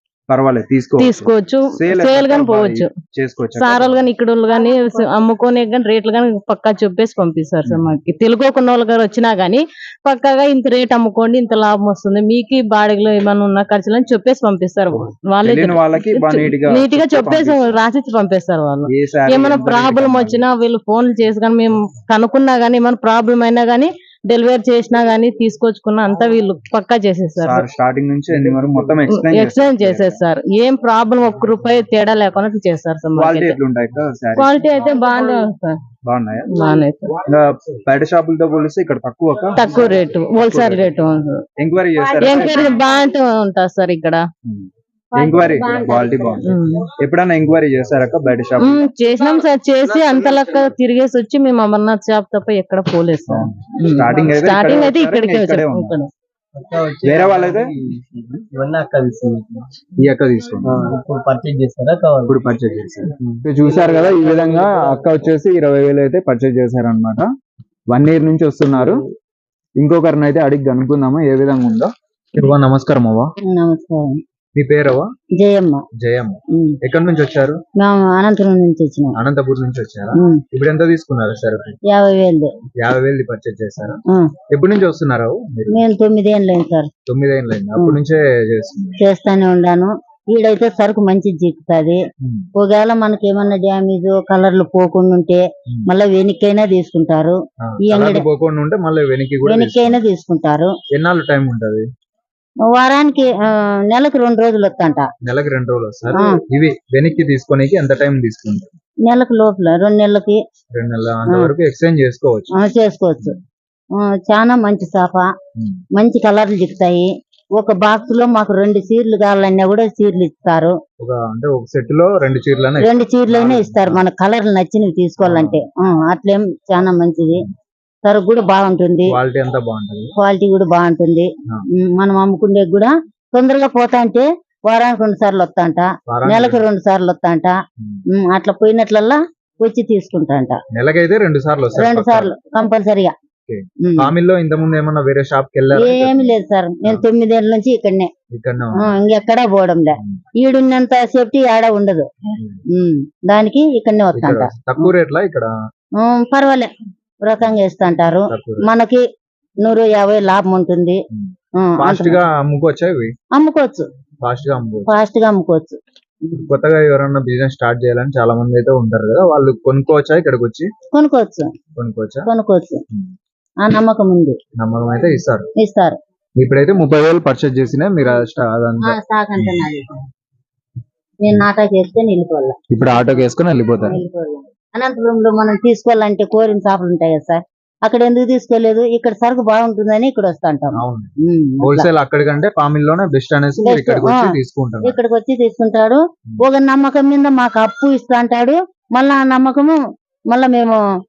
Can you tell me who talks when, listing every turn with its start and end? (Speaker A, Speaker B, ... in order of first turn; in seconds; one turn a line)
Speaker A: 0.3-4.0
Speaker B: 1.0-2.9
Speaker B: 3.5-27.6
Speaker A: 7.7-7.9
Speaker A: 15.4-17.8
Speaker A: 18.9-20.5
Speaker A: 27.4-30.2
Speaker B: 29.1-33.6
Speaker A: 33.1-34.5
Speaker B: 34.4-35.8
Speaker A: 36.0-36.5
Speaker B: 36.5-37.1
Speaker A: 37.2-41.0
Speaker B: 39.6-41.3
Speaker A: 41.6-42.8
Speaker B: 42.2-44.2
Speaker A: 44.4-48.9
Speaker B: 46.4-46.9
Speaker B: 48.6-56.1
Speaker C: 49.8-50.8
Speaker A: 53.3-55.9
Speaker C: 56.5-59.6
Speaker A: 57.0-57.7
Speaker A: 60.0-60.9
Speaker C: 60.6-62.4
Speaker A: 62.3-67.3
Speaker C: 63.2-65.2
Speaker A: 67.9-69.0
Speaker C: 68.7-69.0
Speaker A: 69.8-73.3
Speaker D: 73.5-74.2
Speaker A: 74.5-75.1
Speaker D: 75.4-75.8
Speaker A: 76.0-77.6
Speaker D: 76.5-76.8
Speaker D: 77.8-79.2
Speaker A: 79.2-81.8
Speaker D: 80.1-80.4
Speaker D: 81.9-82.5
Speaker A: 82.8-85.8
Speaker D: 85.7-86.9
Speaker A: 87.1-89.0
Speaker D: 89.0-92.0
Speaker A: 92.2-92.5
Speaker D: 92.5-98.2
Speaker A: 97.6-100.0
Speaker D: 99.4-100.7
Speaker A: 100.9-101.8
Speaker D: 102.7-105.1
Speaker A: 105.2-108.7
Speaker D: 106.1-106.4
Speaker D: 109.0-110.4
Speaker A: 110.7-112.5
Speaker D: 111.3-111.5
Speaker D: 112.5-113.4
Speaker D: 113.9-115.3
Speaker D: 115.9-120.8
Speaker A: 121.0-124.0
Speaker D: 122.8-127.5
Speaker A: 125.2-125.6
Speaker D: 128.0-129.2
Speaker A: 129.1-130.1
Speaker D: 130.2-137.6
Speaker A: 136.1-136.7
Speaker D: 138.1-140.6
Speaker A: 140.7-142.3
Speaker D: 141.7-143.1
Speaker A: 143.5-146.2
Speaker D: 143.8-144.1
Speaker D: 145.7-148.1
Speaker A: 148.3-148.9
Speaker D: 148.8-152.1
Speaker A: 152.4-152.6
Speaker D: 152.7-154.9
Speaker A: 154.1-155.5
Speaker D: 156.0-156.7
Speaker D: 157.2-159.0
Speaker A: 158.3-158.7
Speaker D: 159.6-161.0
Speaker A: 161.1-163.1
Speaker D: 161.6-162.2
Speaker D: 163.3-163.9
Speaker A: 164.2-164.9
Speaker D: 164.9-166.4
Speaker A: 166.5-170.7
Speaker D: 170.9-171.5
Speaker A: 171.8-172.3
Speaker D: 172.3-172.8
Speaker D: 173.6-174.4
Speaker A: 174.6-175.5
Speaker D: 175.6-176.0
Speaker A: 176.4-179.6
Speaker D: 178.8-180.0
Speaker D: 181.2-182.6
Speaker A: 182.7-184.0
Speaker D: 183.8-191.9
Speaker A: 190.7-191.1
Speaker A: 191.6-195.0
Speaker D: 193.6-199.8
Speaker D: 200.3-200.8